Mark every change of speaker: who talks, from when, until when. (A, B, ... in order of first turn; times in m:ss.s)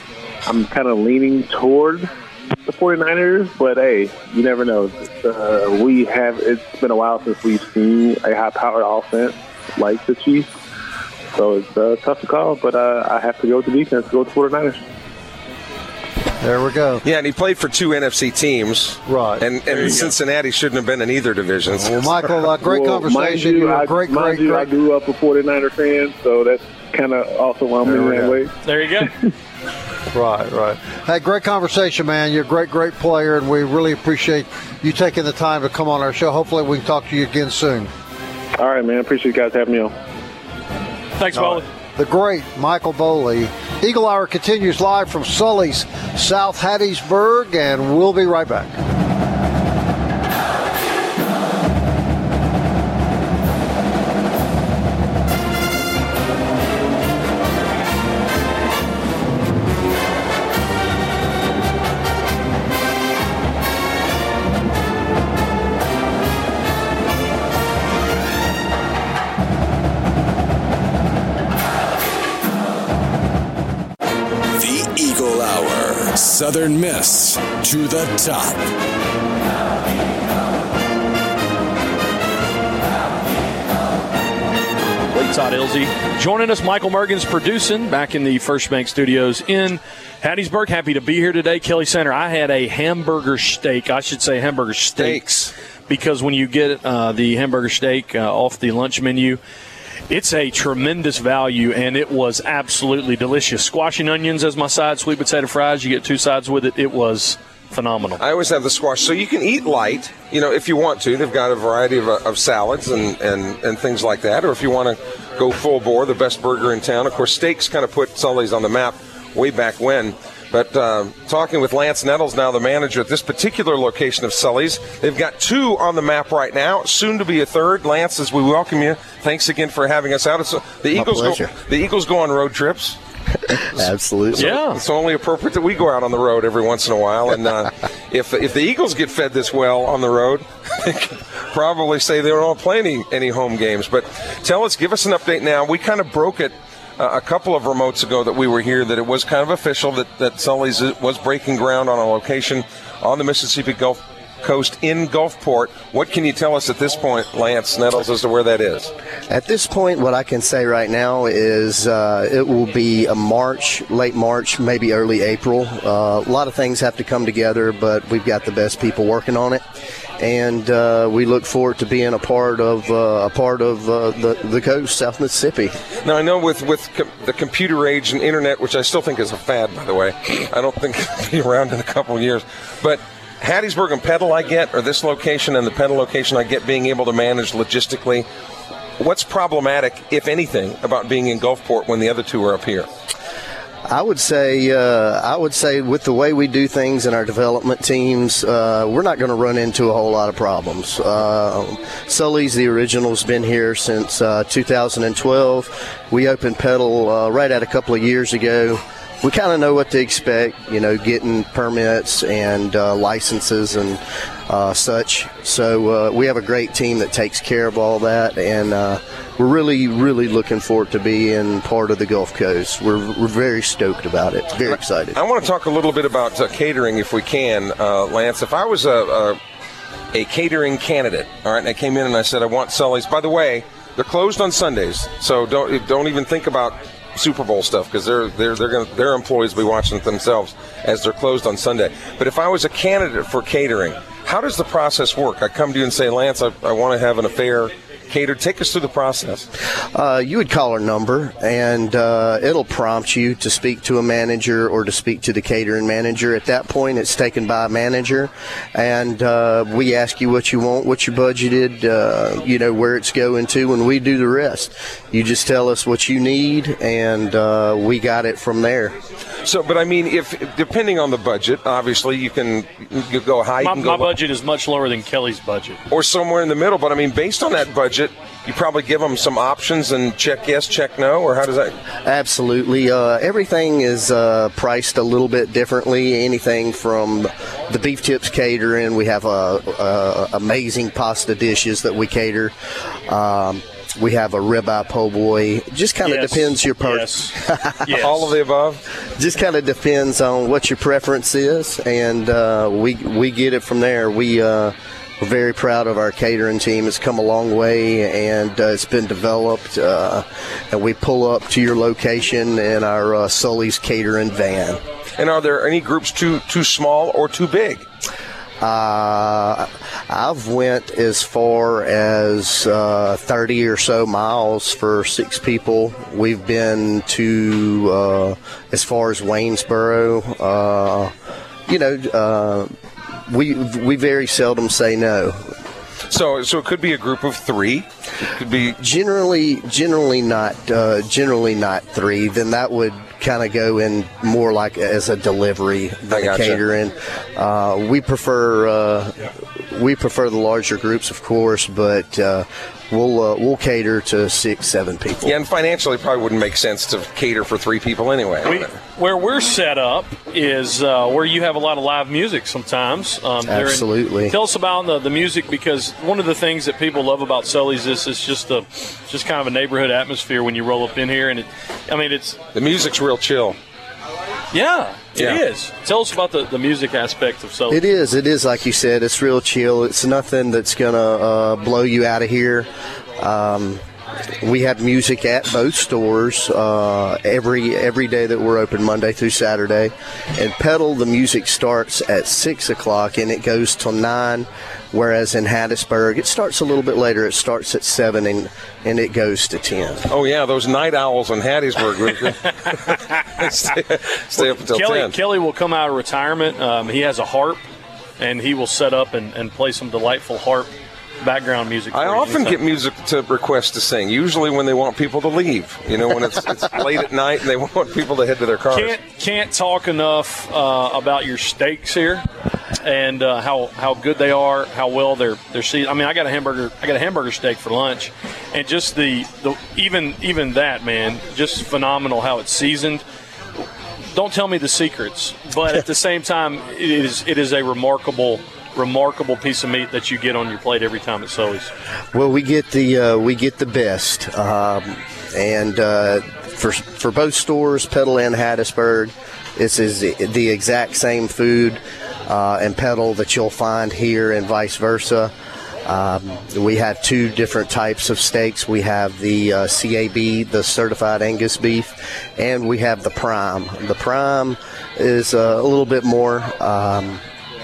0:00.4-0:02.1 A
0:02.6-0:10.5 A
0:11.3-0:14.8 A
0:16.4-0:17.0 B
0:17.0-0:22.1 C
0:19.1-0:19.4 B
0:19.7-0:20.1 D
0:21.7-0:24.7 B
0:22.6-0:28.5 A
0:27.8-0:28.4 B
0:28.6-0:29.1 D
0:30.1-0:37.9 B
0:38.6-0:39.9 A
0:41.2-0:41.6 D
0:41.3-0:48.8 B
1:14.5-1:18.7 E
1:25.1-1:35.3 D
1:35.0-1:35.5 C
1:35.9-1:39.4 D
1:40.1-1:48.2 D
1:48.2-2:13.0 C
2:10.9-2:11.5 F
2:13.5-2:14.6 F
2:14.4-2:14.8 D
2:14.4-2:38.9 C
2:39.3-2:49.6 F
2:50.2-2:55.7 F
2:56.0-3:08.3 C
3:09.0-3:12.9 C
3:13.9-3:45.2 F
3:44.7-3:49.4 C
3:50.1-4:09.5 C
4:09.9-4:28.9 F
4:29.4-4:34.1 C
4:33.6-4:35.8 D
4:35.9-4:41.7 C
4:42.0-4:58.3 F
4:56.0-4:57.3 D
4:57.8-4:58.3 D
4:58.0-4:58.8 C
4:59.2-5:14.8 F
5:15.2-5:17.8 C
5:18.6-5:31.1 F
5:31.7-5:32.7 F
5:33.3-5:35.5 F
5:36.1-5:38.8 C
5:38.8-5:55.3 F
5:46.1-5:46.6 C
5:55.2-5:58.7 C
5:58.4-6:12.4 D
6:03.5-6:04.4 F
6:12.5-6:13.6 C
6:14.5-6:17.8 D
6:15.2-6:15.4 C
6:17.7-6:22.7 F
6:23.2-6:23.8 F
6:24.4-6:40.0 F
6:40.1-6:45.1 C
6:44.3-6:47.6 D
6:48.2-6:52.6 D
6:51.9-6:59.0 C
6:58.7-7:02.3 D
7:02.8-7:13.0 D
7:14.1-7:21.7 D
7:22.1-7:35.3 F
7:35.8-7:47.2 F